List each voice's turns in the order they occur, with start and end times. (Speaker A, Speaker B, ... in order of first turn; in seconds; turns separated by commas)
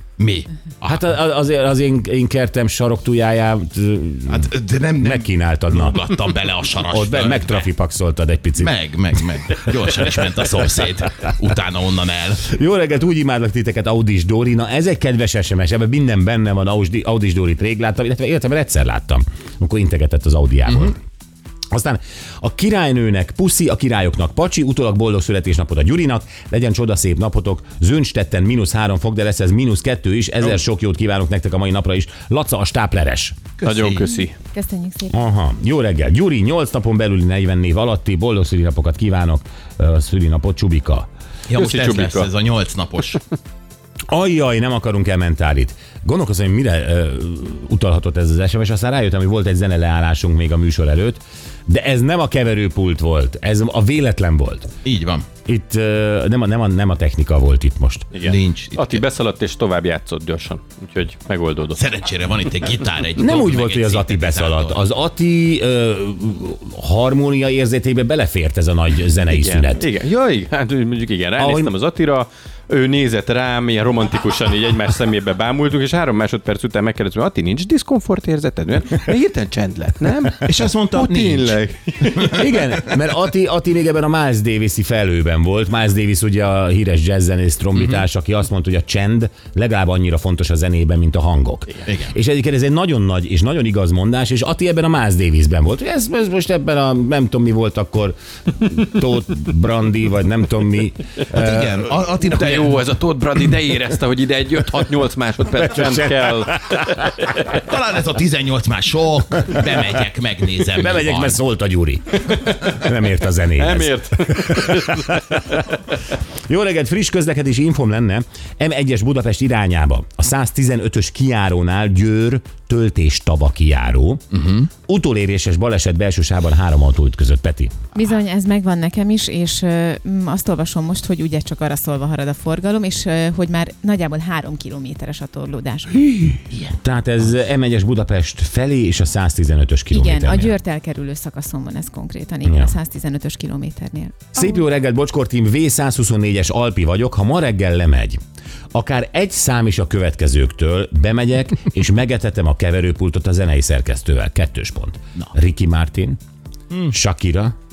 Speaker A: 0.2-1.1, Speaker B: 0.8-6.0, Speaker A: 4.3-7.7, Speaker B: 6.8-8.7, Speaker A: 8.6-12.5, Speaker B: 9.4-10.0, Speaker B: 12.4-21.0, Speaker B: 21.7-33.4, Speaker A: 33.6-34.1, Speaker C: 33.6-34.3, Speaker D: 34.2-35.2, Speaker B: 35.1-41.1, Speaker A: 41.5-43.2, Speaker C: 41.5-42.3, Speaker B: 44.1-54.7, Speaker A: 54.8-55.3, Speaker B: 55.5-58.1, Speaker C: 58.1-61.8, Speaker A: 58.2-59.0, Speaker A: 61.7-64.8, Speaker B: 63.1-69.9, Speaker C: 69.3-82.5, Speaker B: 71.4-71.7, Speaker A: 80.4-82.4, Speaker B: 82.2-101.9, Speaker A: 87.8-88.0, Speaker A: 91.9-92.2, Speaker A: 101.3-102.8, Speaker C: 102.2-107.3, Speaker B: 105.5-107.4, Speaker A: 107.5-111.4, Speaker B: 110.6-115.8, Speaker C: 112.2-112.7, Speaker C: 113.6-115.4, Speaker B: 116.5-124.2, Speaker A: 124.3-124.7, Speaker B: 124.9-127.8, Speaker D: 127.9-136.2, Speaker B: 136.1-140.6, Speaker D: 139.9-144.6, Speaker B: 142.4-142.7, Speaker B: 144.3-148.2, Speaker B: 148.7-156.2, Speaker B: 156.9-157.6